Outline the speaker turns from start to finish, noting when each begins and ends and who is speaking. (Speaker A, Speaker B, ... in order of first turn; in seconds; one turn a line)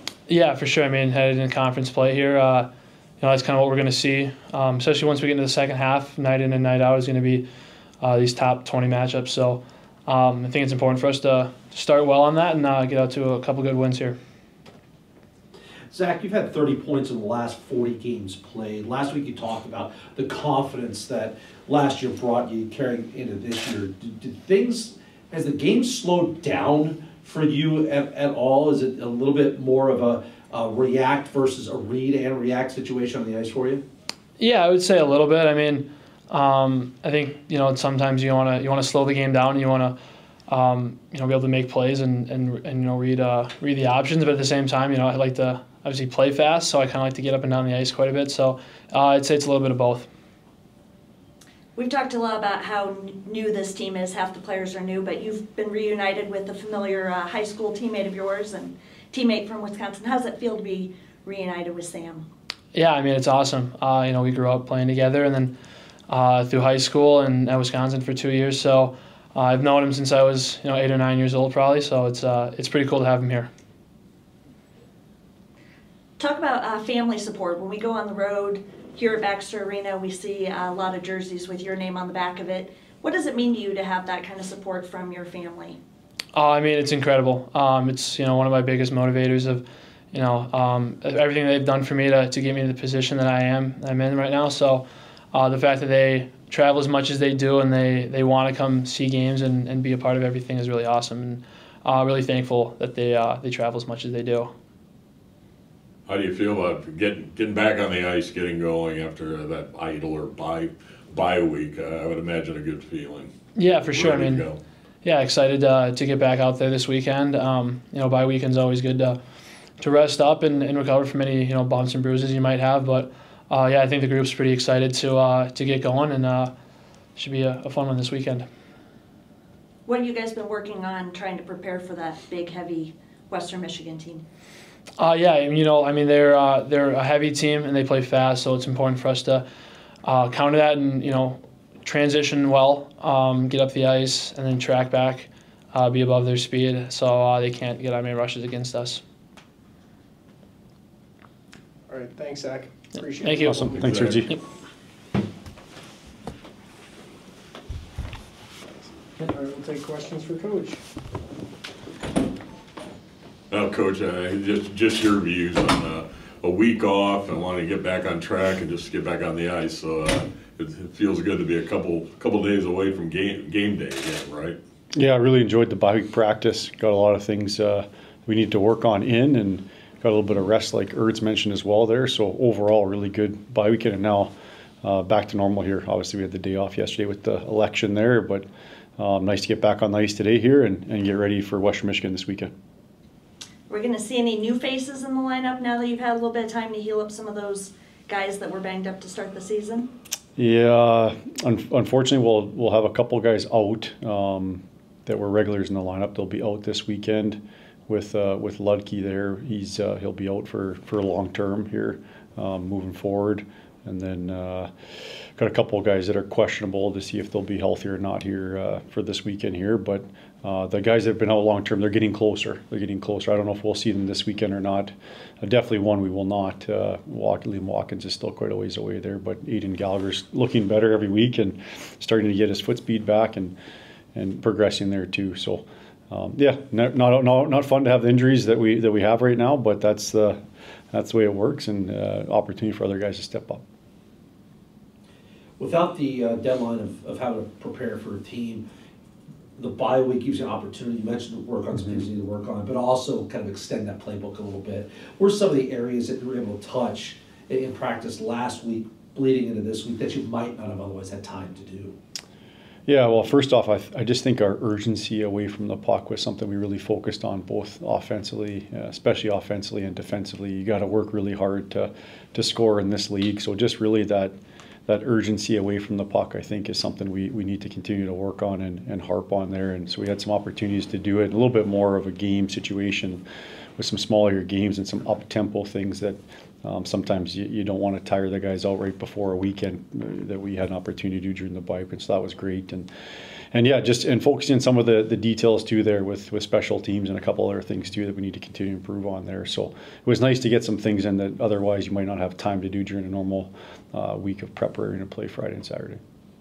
Speaker A: 0.3-2.7
Speaker A: 3.2-7.5
Speaker A: 8.0-14.2
Speaker B: 15.9-33.8
Speaker A: 34.4-40.0
Speaker A: 40.5-50.1
Speaker C: 51.8-62.3
Speaker A: 62.7-65.5
Speaker A: 66.1-73.5
Speaker C: 76.2-85.8
Speaker A: 86.3-104.5
Speaker D: 106.1-114.6
Speaker A: 113.5-114.5
Speaker A: 115.0-119.2
Speaker A: 119.8-126.5
Speaker A: 127.2-128.4
Speaker C: 129.9-134.2
Speaker A: 135.0-139.4
Speaker A: 140.0-149.0
Speaker E: 151.9-154.0
Speaker A: 153.1-153.6
Speaker F: 153.4-154.3
Speaker E: 159.2-160.8
Speaker D: 163.5-174.6
Speaker F: 174.9-184.3
Speaker F: 184.8-188.4
Speaker F: 189.0-192.5
Speaker C: 193.7-199.9
Speaker F: 200.4-214.7
Speaker F: 215.4-233.6
Speaker F: 234.2-240.4
Speaker F: 240.9-243.6
Speaker B: 245.6-248.7
Speaker B: 249.6-262.0
Speaker F: 251.8-252.0
Speaker F: 262.9-274.3
Speaker F: 274.9-283.2
Speaker F: 283.8-292.9
Speaker F: 293.5-306.0